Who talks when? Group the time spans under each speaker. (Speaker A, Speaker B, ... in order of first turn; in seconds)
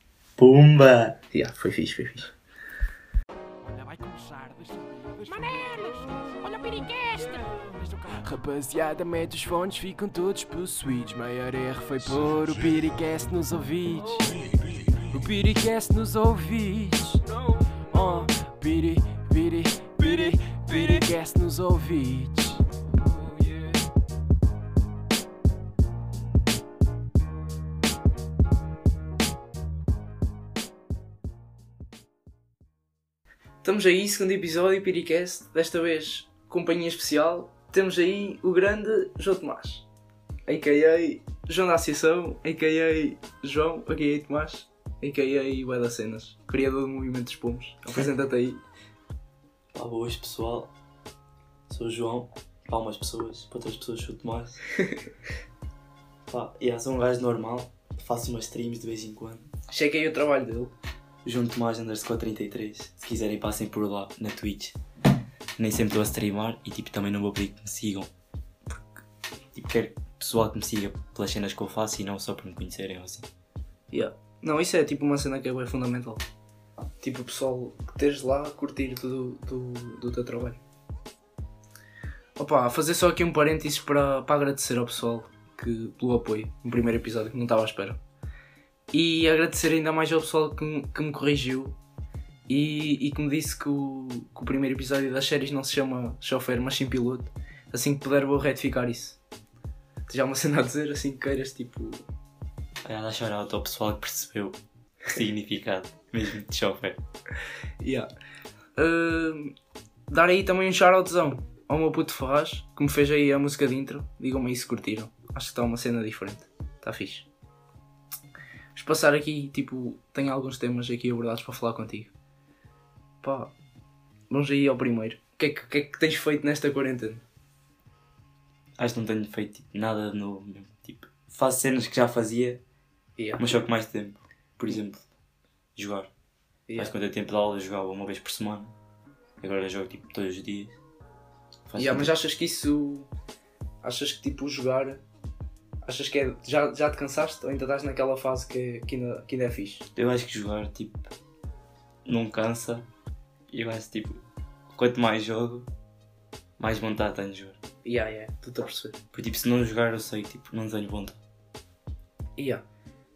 Speaker A: 0.4-1.2, 49.7-50.7, 51.7-54.6, 56.3-59.5, 61.2-64.8, 65.6-68.1, 69.5-73.3, 102.8-107.0, 128.8-132.6, 133.4-135.1, 135.8-136.1, 136.8-138.7, 139.4-140.8, 141.7-142.1, 149.9-151.0, 152.1-152.9, 153.5-155.7, 156.6-157.6, 159.1-161.2
Speaker B: 1.3-2.3, 33.6-39.8, 40.5-48.6, 59.7-60.7, 73.9-76.2, 77.0-80.6, 82.4-88.0, 88.9-91.8, 92.5-99.2, 100.1-102.0, 107.8-108.1, 108.8-109.5, 110.1-117.3, 118.7-122.1, 123.2-123.5, 124.3-127.2, 133.2-133.6, 136.7-136.9, 141.8-143.1, 143.8-145.0, 145.8-149.8, 157.8-159.0, 162.4-162.6
Speaker C: 3.6-23.8